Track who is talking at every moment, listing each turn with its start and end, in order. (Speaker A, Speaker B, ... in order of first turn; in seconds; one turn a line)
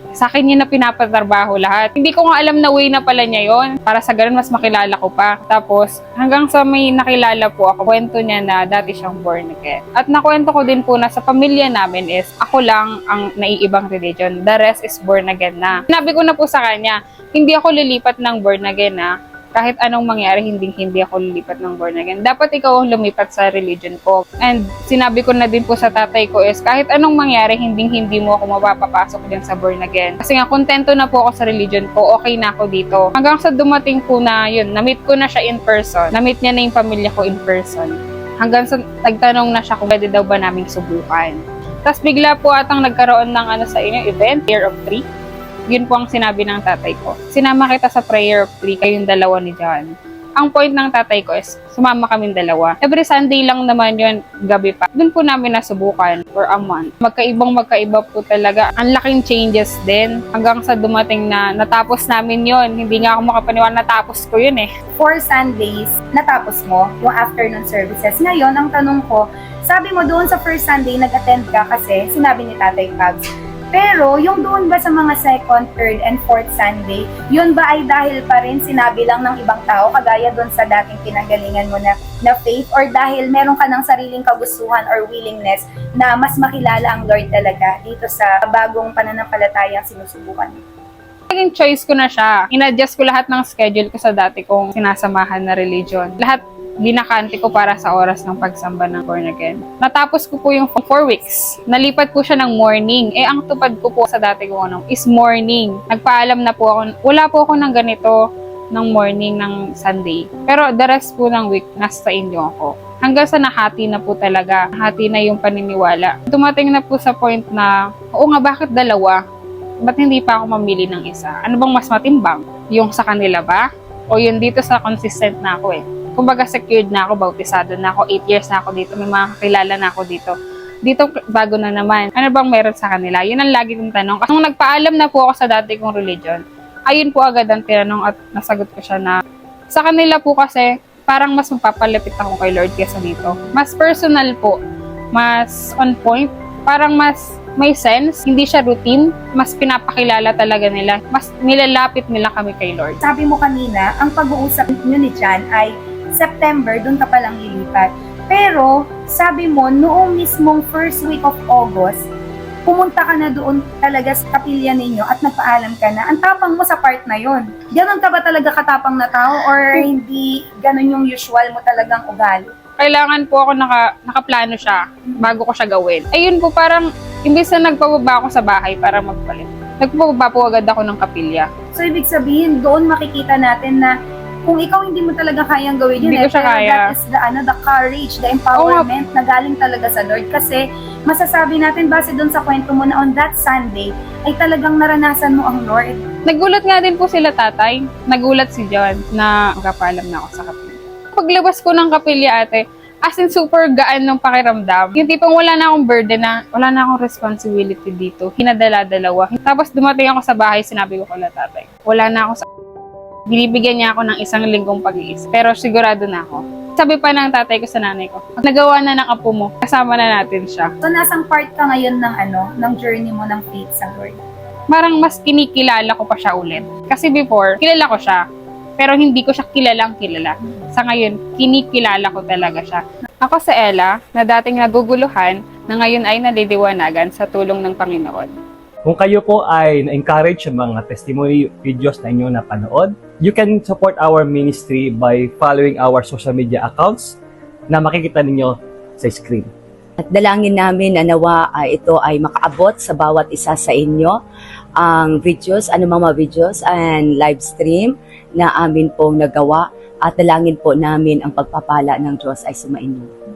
Speaker A: 0.2-45.0
Speaker A: 45.7-64.7
Speaker B: 65.0-90.6
Speaker A: 91.3-108.2
Speaker A: 108.7-119.2
Speaker A: 119.8-130.3
Speaker A: 130.8-139.2
Speaker A: 139.7-144.6
Speaker A: 145.1-153.0
Speaker B: 153.0-162.0
Speaker B: 162.7-172.5
Speaker A: 172.8-181.5
Speaker B: 181.7-183.9
Speaker B: 184.5-196.0
Speaker A: 186.0-186.9
Speaker A: 188.6-188.9
Speaker A: 196.3-212.4
Speaker A: 213.3-220.7
Speaker B: 220.8-224.2
Speaker A: 224.7-228.2
Speaker A: 228.8-238.3
Speaker C: 238.8-247.2
Speaker C: 247.7-249.5
Speaker D: 250.0-254.2
Speaker D: 254.8-263.1